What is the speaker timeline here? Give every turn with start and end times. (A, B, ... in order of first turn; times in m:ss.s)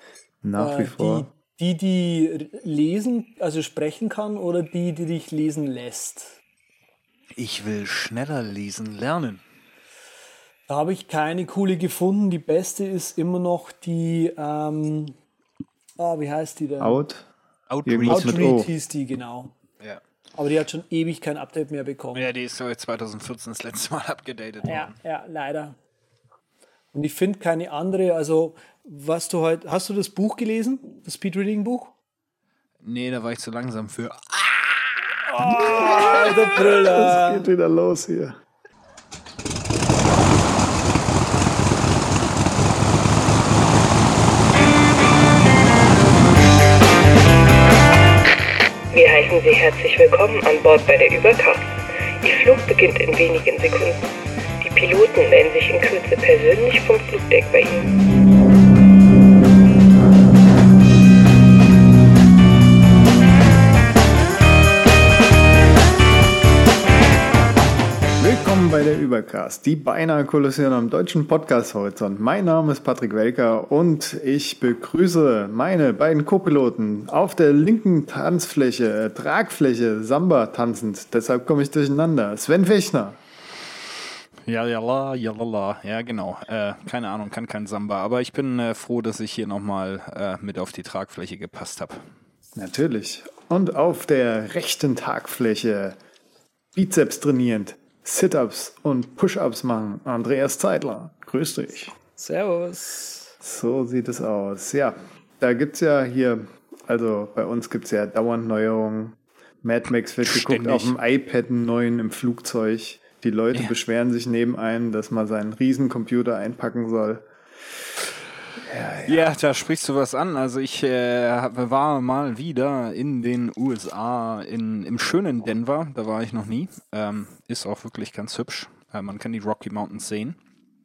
0:00.4-0:01.3 A
0:00.6-0:06.4 B
0:07.4-0:09.4 C
0:10.7-0:15.2 B
0:16.0-0:17.0 B
0:16.8-0:17.3 A
0:17.7-0:18.5 C
0:17.8-0:18.7 A
0:18.1-0:19.5 B
0:20.4-0:22.3 B
0:22.2-0:25.0 C
0:24.6-0:25.8 B
0:26.9-0:31.9 B
0:32.8-0:36.0 C
0:35.3-0:37.5 B
0:35.6-0:38.4 A
0:48.9-0:54.1 D
0:54.6-0:57.9 D
1:08.2-1:23.2 A
1:24.5-1:32.1 C
1:32.6-1:36.0 A
1:36.7-1:42.0 A
1:42.2-1:43.3 B
1:43.4-1:57.3 A
1:50.2-1:51.0 C
1:58.6-1:59.2 A
1:59.0-2:10.4 C